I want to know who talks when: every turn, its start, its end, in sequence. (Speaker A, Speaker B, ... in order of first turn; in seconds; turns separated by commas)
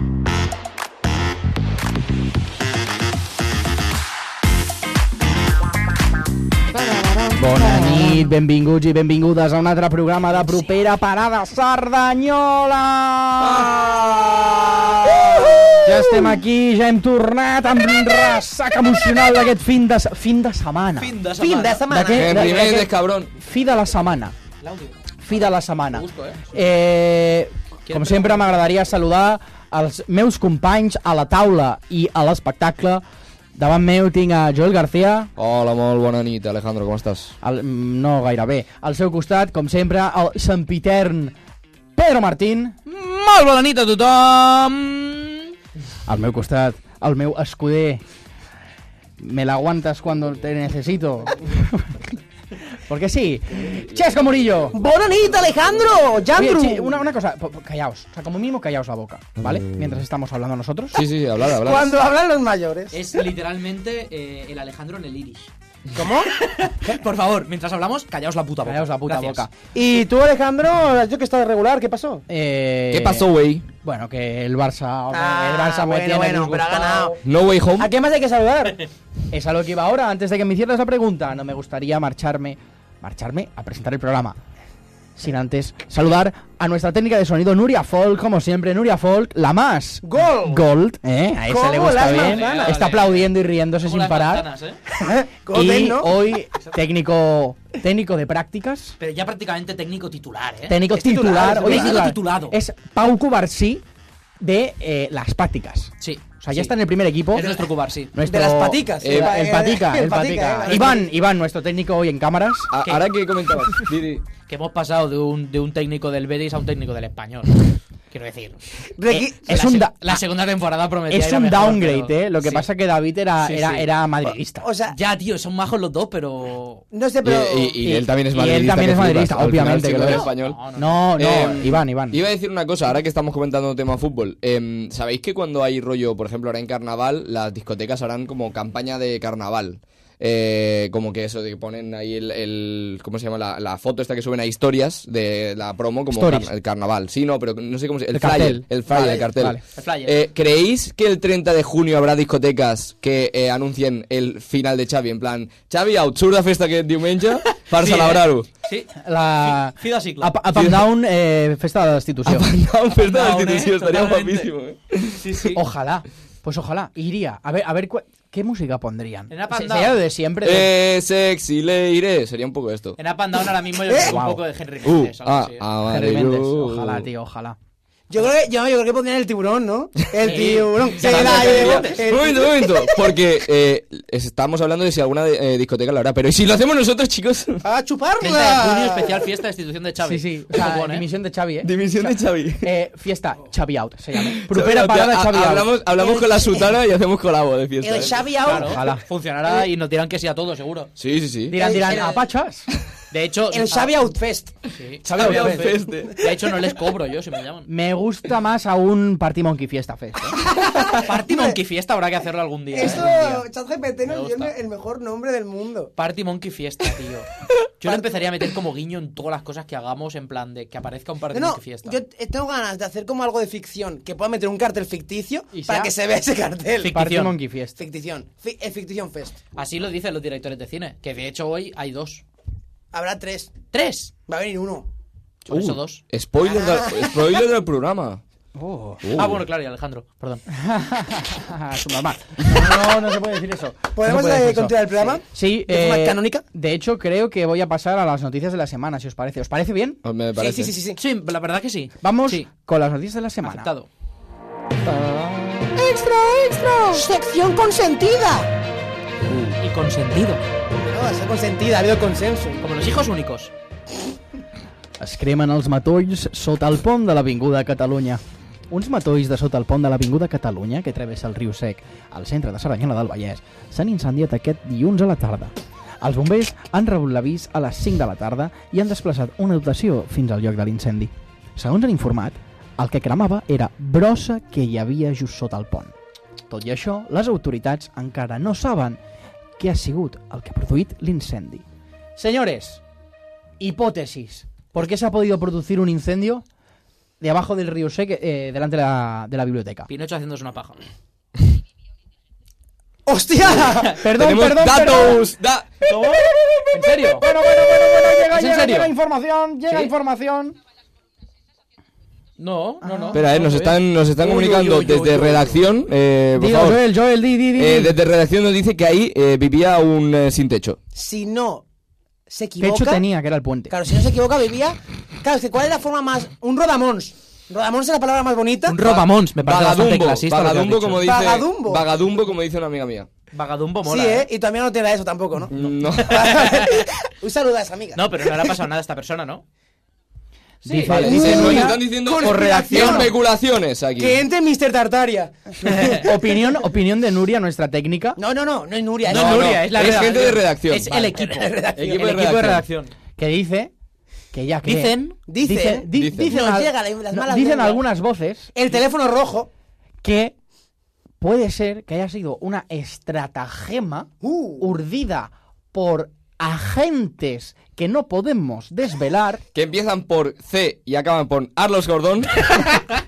Speaker A: 6.8-8.0, Speaker B: 7.4-13.7, Speaker A: 13.4-16.2, Speaker B: 15.8-21.1, Speaker C: 21.0-21.9, Speaker D: 21.4-22.7, Speaker B: 21.9-24.4, Speaker A: 22.1-23.3, Speaker C: 24.6-26.5, Speaker B: 25.2-33.0, Speaker C: 27.9-28.5, Speaker B: 33.5-35.3, Speaker A: 35.4-37.4, Speaker B: 37.4-41.4, Speaker B: 42.0-42.8, Speaker C: 42.9-45.5, Speaker B: 46.1-48.0, Speaker B: 49.2-52.1, Speaker B: 52.8-54.8, Speaker A: 53.8-54.1, Speaker D: 54.7-57.0, Speaker A: 55.4-56.1, Speaker B: 56.4-61.0, Speaker A: 59.4-60.0, Speaker A: 60.9-62.0, Speaker D: 61.5-63.1, Speaker C: 62.9-65.5, Speaker D: 65.9-66.3, Speaker C: 66.3-69.5, Speaker B: 68.7-69.6, Speaker D: 69.7-72.2, Speaker B: 72.3-73.3, Speaker A: 72.9-73.7, Speaker B: 73.8-77.2, Speaker D: 75.1-77.2, Speaker A: 77.2-77.9, Speaker D: 77.8-78.8, Speaker B: 79.3-84.4, Speaker B: 85.2-94.5, Speaker D: 90.0-90.7, Speaker D: 91.5-92.8, Speaker C: 92.1-93.3, Speaker C: 93.8-94.8, Speaker D: 94.9-96.1, Speaker B: 95.5-99.0, Speaker C: 99.0-100.8, Speaker B: 100.7-103.8, Speaker D: 100.9-102.0, Speaker C: 101.5-102.6, Speaker B: 104.4-107.6, Speaker C: 106.0-106.8, Speaker C: 107.3-108.1, Speaker D: 107.4-107.7, Speaker B: 108.1-112.7, Speaker D: 108.2-111.1, Speaker A: 109.0-109.4, Speaker A: 112.7-114.2, Speaker C: 112.8-113.1, Speaker C: 114.5-122.7, Speaker D: 119.0-119.4, Speaker B: 119.5-120.2, Speaker B: 121.1-124.7, Speaker C: 123.4-123.9, Speaker D: 124.6-125.0, Speaker C: 124.9-126.8, Speaker D: 126.9-127.8, Speaker A: 127.2-130.6, Speaker B: 127.8-132.2, Speaker C: 130.0-131.0, Speaker A: 131.2-158.5, Speaker B: 146.1-146.5, Speaker B: 148.1-149.6, Speaker C: 149.8-150.2, Speaker C: 157.4-160.4, Speaker B: 159.0-162.5, Speaker A: 160.5-160.8, Speaker A: 162.3-165.2, Speaker C: 162.9-164.5, Speaker C: 165.2-165.6, Speaker B: 165.5-170.7, Speaker C: 169.3-170.0, Speaker A: 170.4-173.0, Speaker C: 173.0-175.7, Speaker D: 173.9-174.2, Speaker B: 174.0-174.4, Speaker A: 174.8-177.1, Speaker B: 175.9-177.6, Speaker D: 178.1-183.2, Speaker C: 180.2-181.9, Speaker A: 181.0-187.6, Speaker D: 187.6-189.2, Speaker C: 188.2-191.1, Speaker B: 190.0-195.8, Speaker A: 191.6-192.7, Speaker A: 194.3-198.3, Speaker D: 195.9-196.8, Speaker D: 197.8-198.8, Speaker C: 198.4-200.9, Speaker B: 198.5-199.0, Speaker A: 201.0-201.6, Speaker B: 201.5-202.7, Speaker D: 201.5-202.2, Speaker C: 203.1-203.9, Speaker D: 203.5-204.6, Speaker C: 204.7-207.7, Speaker B: 205.0-205.8, Speaker A: 205.1-206.2, Speaker D: 206.1-206.4, Speaker B: 207.7-210.4, Speaker D: 210.4-211.6, Speaker C: 210.9-213.4, Speaker D: 212.7-215.9, Speaker B: 212.8-213.4, Speaker C: 214.1-214.5, Speaker C: 216.0-217.3, Speaker C: 217.8-222.0, Speaker D: 221.3-227.0, Speaker B: 225.5-225.9, Speaker C: 226.8-227.4, Speaker B: 226.8-227.8, Speaker D: 227.8-229.4, Speaker C: 229.6-232.2, Speaker D: 232.9-233.5, Speaker C: 233.7-234.1, Speaker D: 234.3-234.9, Speaker C: 235.4-236.0, Speaker A: 235.5-238.2, Speaker D: 236.4-237.2, Speaker B: 238.6-239.0, Speaker A: 239.0-239.4, Speaker C: 239.1-240.4, Speaker B: 240.5-250.0, Speaker D: 243.9-246.4, Speaker A: 250.0-250.7, Speaker D: 250.4-251.0, Speaker C: 251.0-252.5, Speaker B: 252.0-253.7, Speaker C: 253.4-253.9, Speaker A: 254.8-255.7, Speaker D: 255.8-256.2, Speaker B: 255.8-257.0, Speaker D: 256.9-258.5, Speaker A: 259.2-259.6, Speaker C: 259.6-260.4, Speaker D: 260.9-262.6, Speaker C: 262.6-263.5, Speaker B: 265.0-285.9, Speaker B: 286.5-289.0, Speaker B: 289.6-291.6, Speaker B: 292.2-292.8, Speaker B: 293.6-296.4, Speaker B: 297.2-299.9, Speaker C: 299.9-300.8, Speaker D: 303.1-304.0, Speaker B: 303.9-305.3, Speaker A: 304.1-305.7, Speaker C: 305.9-307.3, Speaker B: 307.0-310.6, Speaker C: 308.3-308.9, Speaker C: 312.4-315.6, Speaker B: 312.8-313.2, Speaker A: 313.1-316.8, Speaker B: 316.4-318.0, Speaker A: 317.6-320.8, Speaker D: 320.9-321.6, Speaker D: 322.3-323.0, Speaker B: 322.6-323.7, Speaker D: 323.7-329.0, Speaker C: 328.7-331.1, Speaker A: 329.0-333.1, Speaker D: 331.0-331.9, Speaker C: 333.3-334.3, Speaker D: 333.9-338.6, Speaker A: 335.5-336.4, Speaker C: 336.0-336.9, Speaker C: 337.9-339.4, Speaker C: 340.6-341.6, Speaker B: 340.6-341.8, Speaker A: 340.9-344.2, Speaker D: 341.0-343.1, Speaker C: 342.2-343.1, Speaker D: 344.0-346.5, Speaker C: 345.7-345.9, Speaker B: 346.0-348.2, Speaker D: 348.2-350.1, Speaker A: 349.1-350.9, Speaker C: 349.1-352.9, Speaker D: 350.9-352.1, Speaker A: 351.8-352.7, Speaker B: 353.2-353.7, Speaker B: 354.3-358.5, Speaker C: 354.6-355.2, Speaker D: 355.3-357.8, Speaker A: 355.9-356.4, Speaker D: 358.6-359.5, Speaker B: 360.0-360.4, Speaker B: 361.2-369.4, Speaker D: 364.2-364.7, Speaker A: 369.5-372.5